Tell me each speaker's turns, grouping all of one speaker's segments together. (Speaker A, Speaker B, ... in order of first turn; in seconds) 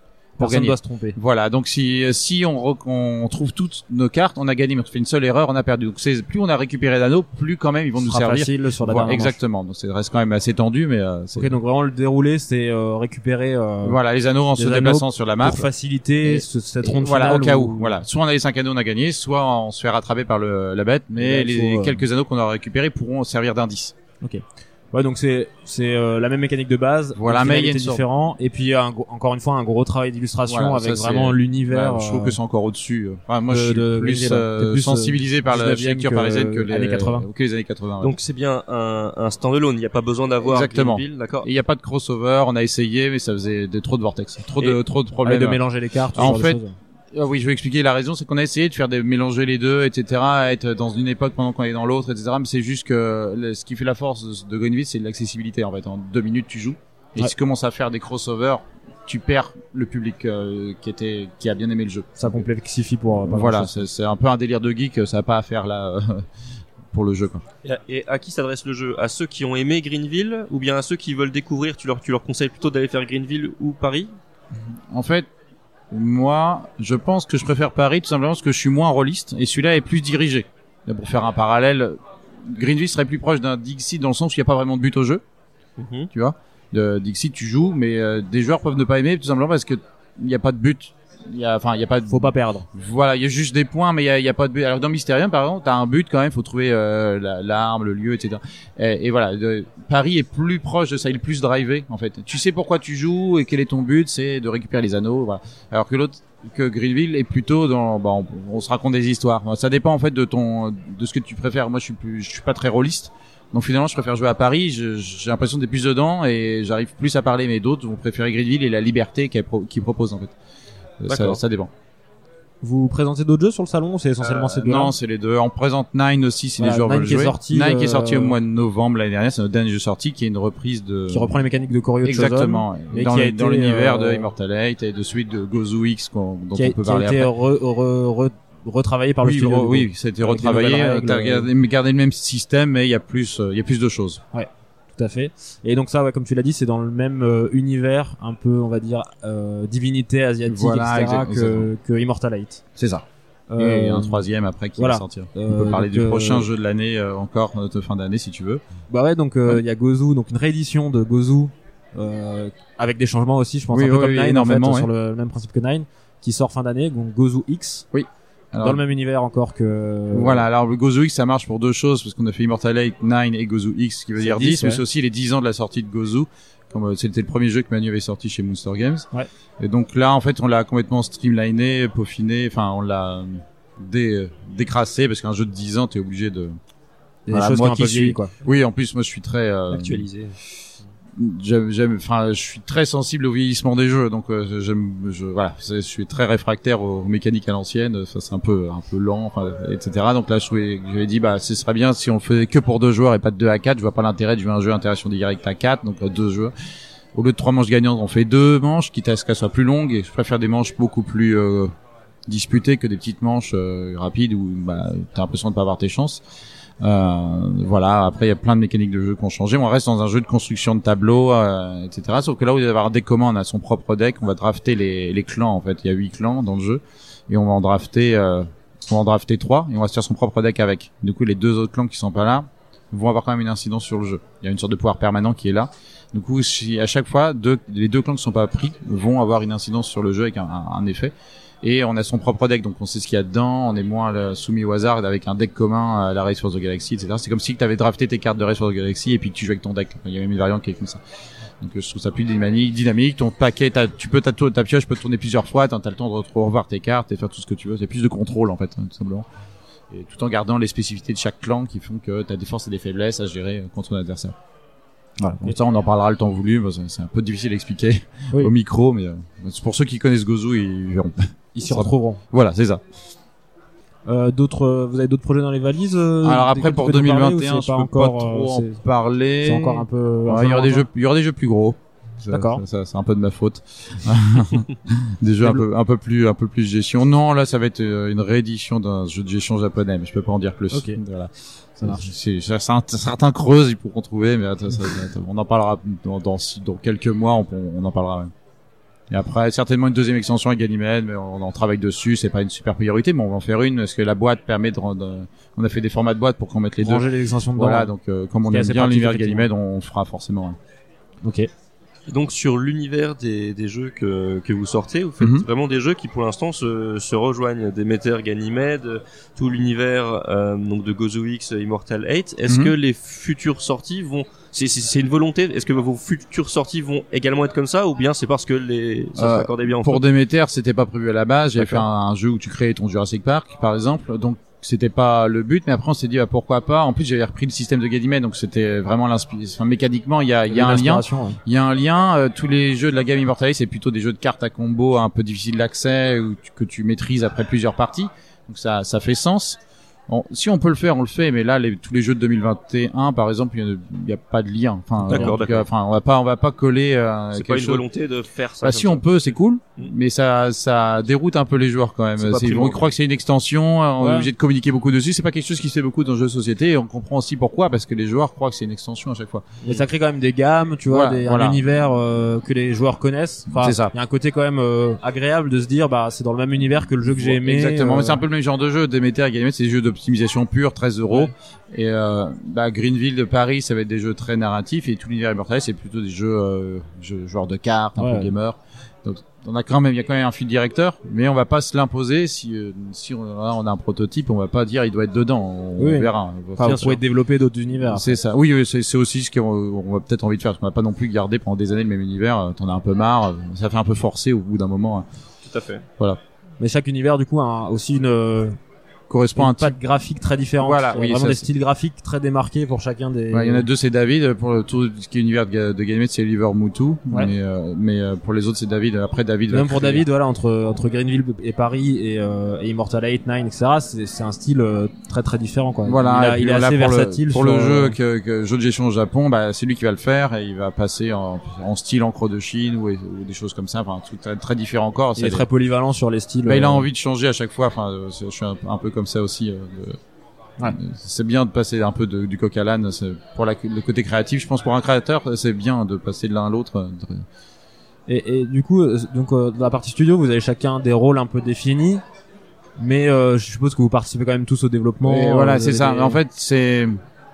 Speaker A: 0.4-1.2, 8.0-9.4, 11.3-14.0, 14.6-18.0, 21.2-22.0, 24.2-32.4, 33.5-37.2, 44.6-46.7, 62.2-63.8, 92.1-92.7, 122.6-124.9, 126.6-128.4, 131.1-134.3, 136.5-141.5, 144.3-152.6, 153.5-154.2, 154.8-156.5, 158.9-167.8, 168.6-170.4, 174.2-174.8, 187.3-188.3, 265.3-265.5, 271.5-272.2, 274.1-278.8, 279.4-280.9, 282.3-282.6, 290.7-291.0, 291.8-292.1, 306.8-307.9, 308.4-309.5, 311.2-311.5, 340.5-341.4, 355.1-355.3, 364.0-364.3, 369.6-378.2, 388.0-388.3, 395.8-398.1, 406.6-408.6, 409.4-413.7, 419.5-428.0, 435.1-436.9, 448.1-452.0, 452.8-456.2
Speaker B: 0.4-11.6, 13.8-15.7, 16.2-23.9, 27.1-28.0, 30.5-38.1, 40.4-45.6, 46.1-46.6, 47.1-62.4, 63.2-66.3, 66.9-67.4, 74.9-75.3, 75.9-85.2, 86.1-120.3, 121.0-121.7, 124.2-131.4, 132.0-137.3, 139.2-144.2, 150.5-151.7, 152.8-153.0, 153.6-158.6, 163.7-164.9, 167.9-168.8, 170.1-179.1, 179.6-186.6, 187.3-190.1, 191.2-206.5, 207.1-211.7, 212.3-216.2, 216.8-251.0, 251.6-259.2, 259.9-264.4, 265.2-272.8, 276.2-298.3, 299.1-310.6, 315.2-315.4, 322.5-322.7, 329.1-357.8, 358.6-369.5, 370.9-371.6, 373.5-373.9, 377.0-397.0, 397.8-405.1, 409.1-409.8, 410.6-411.5, 413.3-420.0, 425.8-435.5, 436.4-440.0, 440.6-447.2, 455.0-457.0
Speaker C: 38.0-41.5, 67.6-74.1, 85.8-86.1, 121.1-121.4, 189.7-190.3, 312.1-330.0, 355.1-355.7, 357.3-359.2, 362.2-362.9, 405.4-405.8